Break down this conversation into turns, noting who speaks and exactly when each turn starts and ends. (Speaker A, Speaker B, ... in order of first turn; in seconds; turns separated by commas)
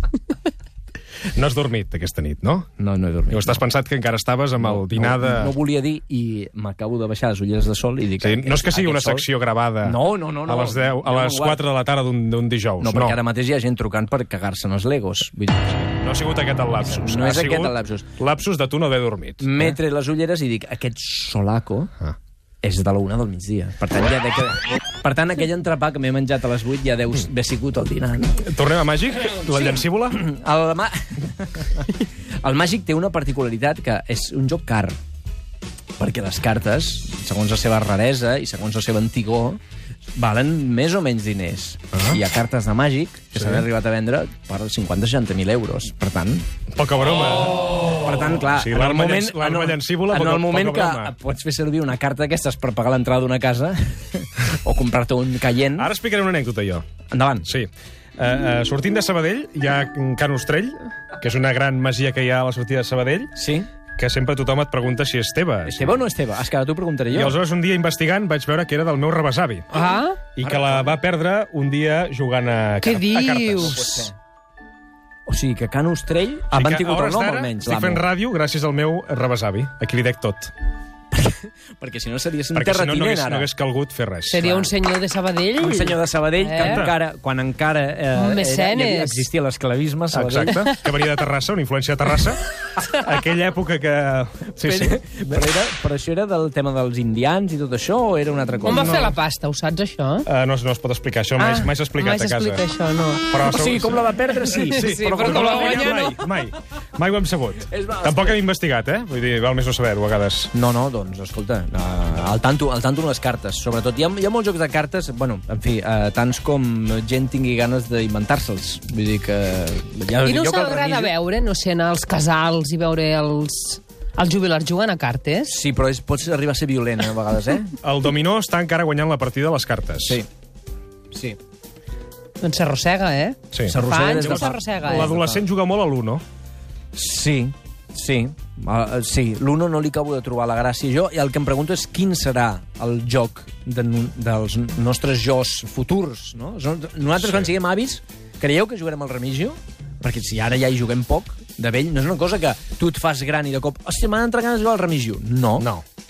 Speaker A: 1.3-2.7, Speaker B: 2.8-3.6, Speaker A: 3.3-5.5, Speaker B: 4.6-9.3, Speaker A: 8.2-13.2, Speaker B: 9.8-11.6, Speaker B: 12.8-16.0, Speaker A: 15.9-19.8, Speaker B: 16.8-18.1, Speaker B: 19.4-21.9, Speaker B: 22.6-28.4, Speaker A: 28.4-30.2, Speaker B: 29.5-35.0, Speaker B: 36.0-39.6, Speaker B: 40.1-46.5, Speaker A: 41.9-42.2, Speaker A: 43.3-43.6, Speaker A: 46.7-47.8, Speaker B: 47.8-55.9, Speaker A: 48.4-51.1, Speaker A: 55.8-56.9, Speaker B: 57.1-57.5, Speaker A: 57.4-63.3, Speaker B: 63.3-63.7, Speaker A: 64.0-66.0, Speaker B: 65.6-67.4, Speaker A: 67.1-69.7, Speaker C: 69.7-70.2, Speaker B: 69.7-71.0, Speaker A: 70.3-73.8, Speaker C: 72.8-74.0, Speaker B: 73.6-74.1, Speaker B: 75.3-78.0, Speaker A: 76.5-80.5, Speaker B: 81.1-83.5, Speaker A: 82.5-84.4, Speaker C: 84.3-86.8, Speaker B: 84.4-84.7, Speaker B: 85.6-90.6, Speaker A: 86.6-87.0, Speaker C: 88.1-89.2, Speaker A: 90.1-95.4, Speaker B: 94.6-99.1, Speaker C: 98.6-100.3, Speaker A: 98.6-99.2, Speaker A: 100.2-102.6, Speaker C: 101.4-103.3, Speaker A: 103.3-110.5, Speaker B: 103.4-106.2, Speaker C: 104.5-106.2, Speaker B: 107.7-108.4, Speaker B: 110.5-121.1, Speaker C: 120.2-125.5, Speaker B: 125.4-127.7, Speaker A: 127.8-130.2, Speaker B: 131.1-131.4, Speaker C: 132.4-135.1, Speaker A: 133.5-136.2, Speaker B: 133.7-135.5, Speaker B: 136.9-155.7, Speaker A: 147.2-147.5, Speaker A: 155.6-155.8